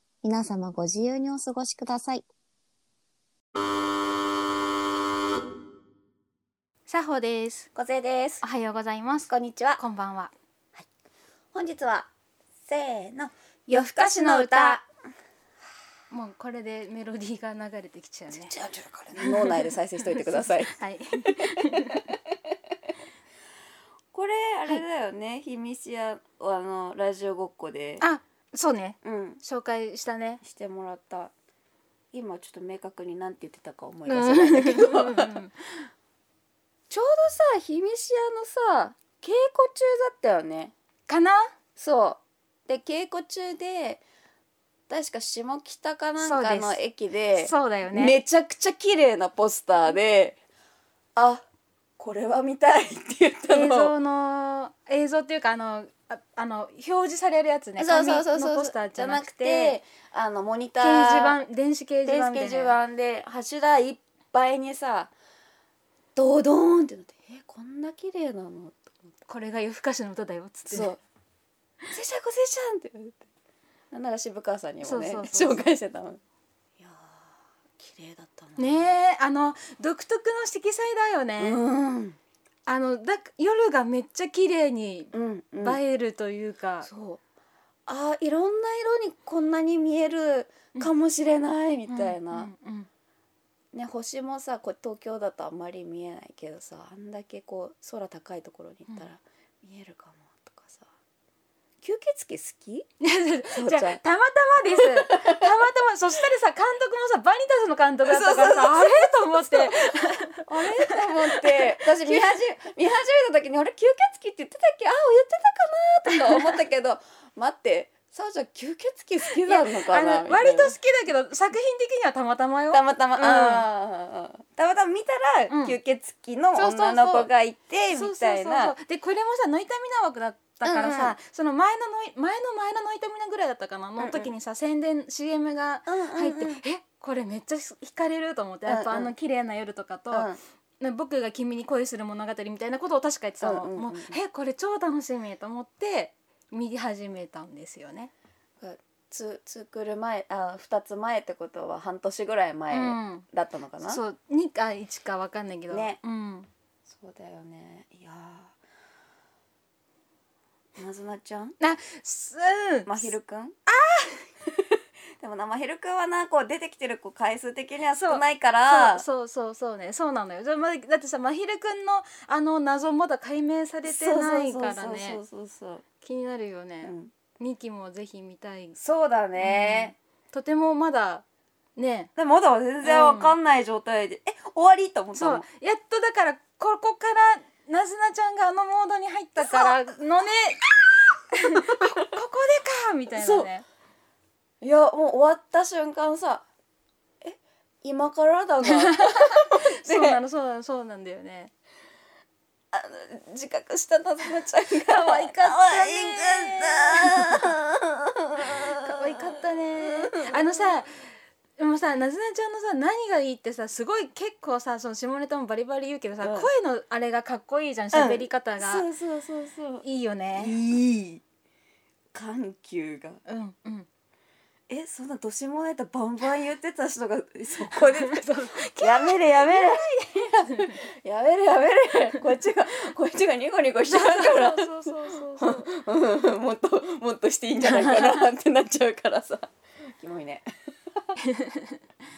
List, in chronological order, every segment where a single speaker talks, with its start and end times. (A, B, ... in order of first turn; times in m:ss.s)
0:00.2-0:02.2 A
0:06.9-0:07.7 B
0:07.8-0:08.4 C
0:08.4-0:10.3 B
0:09.3-0:09.8 C
0:11.5-0:12.1 C
0:12.7-0:14.9 C
0:13.7-0:14.8 B
0:16.1-0:18.5 B
0:18.3-0:22.0 C
0:19.2-0:22.1 B
0:24.1-0:28.0 C
0:28.0-0:30.4 B
0:29.0-0:29.4 C
0:30.4-0:31.3 C
0:32.1-0:35.3 C
0:34.1-0:35.9 B
0:36.9-0:40.7 C
0:41.1-0:41.5 B
0:41.8-0:44.0 C
0:44.9-0:50.4 C
0:46.2-0:46.8 B
0:47.4-0:48.2 B
0:51.2-0:51.4 C
0:52.0-0:53.9 C
0:53.5-0:59.8 B
0:57.8-1:01.4 C
1:00.8-1:02.8 B
1:02.1-1:05.1 C
1:06.2-1:09.2 C
1:09.3-1:10.9 B
1:10.7-1:11.0 C
1:11.9-1:13.2 C
1:13.9-1:16.2 C
1:14.8-1:15.7 B
1:16.8-1:18.9 C
1:18.6-1:21.6 B
1:21.4-1:22.2 C
1:22.7-1:26.9 B
1:25.1-1:25.8 C
1:26.8-1:27.2 C
1:27.9-1:32.5 C
1:31.9-1:32.9 B
1:33.7-1:40.9 C
1:41.8-1:42.9 C
1:43.0-1:52.4 B
1:43.5-1:44.0 C
1:44.7-1:45.5 C
1:48.1-2:00.8 C
1:56.1-1:56.5 B
1:59.3-2:03.7 B
2:02.7-2:08.8 C
2:05.5-2:05.8 B
2:06.5-2:07.3 B
2:07.9-2:20.3 B
2:10.6-2:11.2 C
2:14.0-2:14.3 C
2:15.9-2:16.6 C
2:18.7-2:19.1 C
2:20.1-2:20.4 C
2:20.8-2:28.1 B
2:23.4-2:24.2 C
2:28.6-2:34.0 C
2:32.7-2:33.2 B
2:33.8-2:36.5 B
2:35.7-2:36.0 C
2:36.9-2:38.6 C
2:40.8-2:41.6 C
2:41.6-2:43.1 B
2:42.9-2:43.6 C
2:43.7-2:44.3 B
2:44.5-2:49.0 C
2:47.9-2:55.2 B
2:53.8-2:55.8 C
2:56.0-2:58.8 B
2:56.8-2:57.1 C
2:58.8-2:59.9 C
2:59.4-3:01.2 B
3:01.8-3:02.1 B
3:02.2-3:05.5 C
3:02.8-3:03.4 B
3:05.2-3:10.7 B
3:09.4-3:09.8 C
3:11.3-3:13.6 B
3:13.2-3:13.5 C
3:14.6-3:16.4 C
3:17.2-3:20.2 C
3:18.6-3:21.5 B
3:22.7-3:30.8 C
3:24.9-3:27.6 B
3:28.5-3:38.9 B
3:36.2-3:36.5 C
3:37.9-3:41.2 C
3:39.8-3:40.6 B
3:42.1-3:43.2 C
3:43.3-3:43.9 B
3:44.7-4:01.1 C
3:47.6-3:50.8 B
3:53.9-3:55.7 B
3:57.6-3:58.3 B
4:01.2-4:01.8 B